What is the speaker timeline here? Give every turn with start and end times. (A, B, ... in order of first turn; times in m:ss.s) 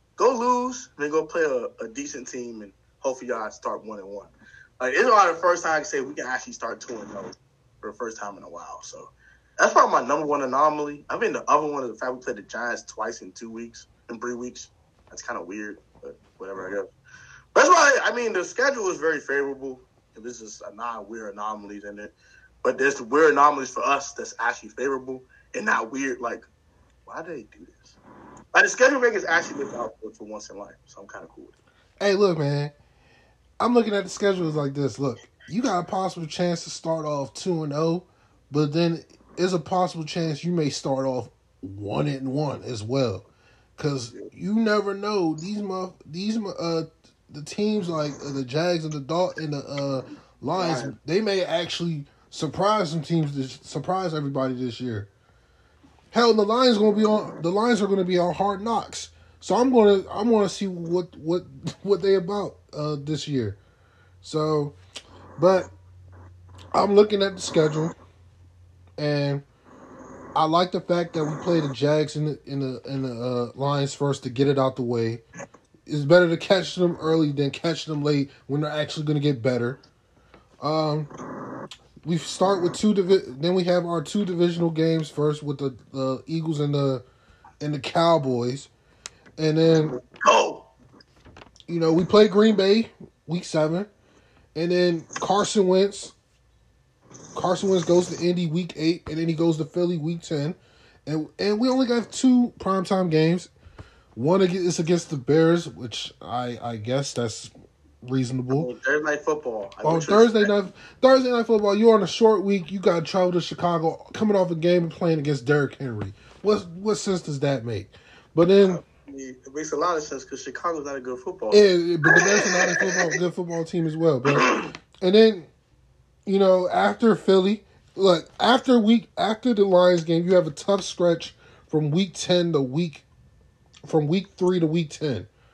0:00.2-0:16.9 A
0:17.5-0:26.5 A
0:27.0-0:28.0 A
0:28.5-0:31.6 A
0:32.0-0:32.7 B
0:33.6-0:55.1 B
0:50.5-0:50.9 A
0:56.1-1:03.6 B
1:04.2-1:04.8 B
1:05.4-1:05.7 B
1:06.7-1:07.9 B
1:09.0-1:09.4 B
1:10.3-1:15.2 B
1:15.9-1:19.8 B
1:20.6-1:21.1 B
1:22.0-1:27.0 B
1:27.6-1:28.7 B
1:29.4-1:29.9 B
1:29.7-1:30.7 A
1:31.7-1:33.9 B
1:34.5-1:36.1 B
1:37.3-1:43.5 B
1:44.1-1:47.5 B
1:48.0-1:48.7 B
1:48.5-1:50.5 A
1:49.8-1:58.8 B
1:58.6-2:03.0 A
2:01.5-2:05.5 B
2:04.3-2:04.7 A
2:06.2-2:13.0 B
2:13.8-2:15.3 B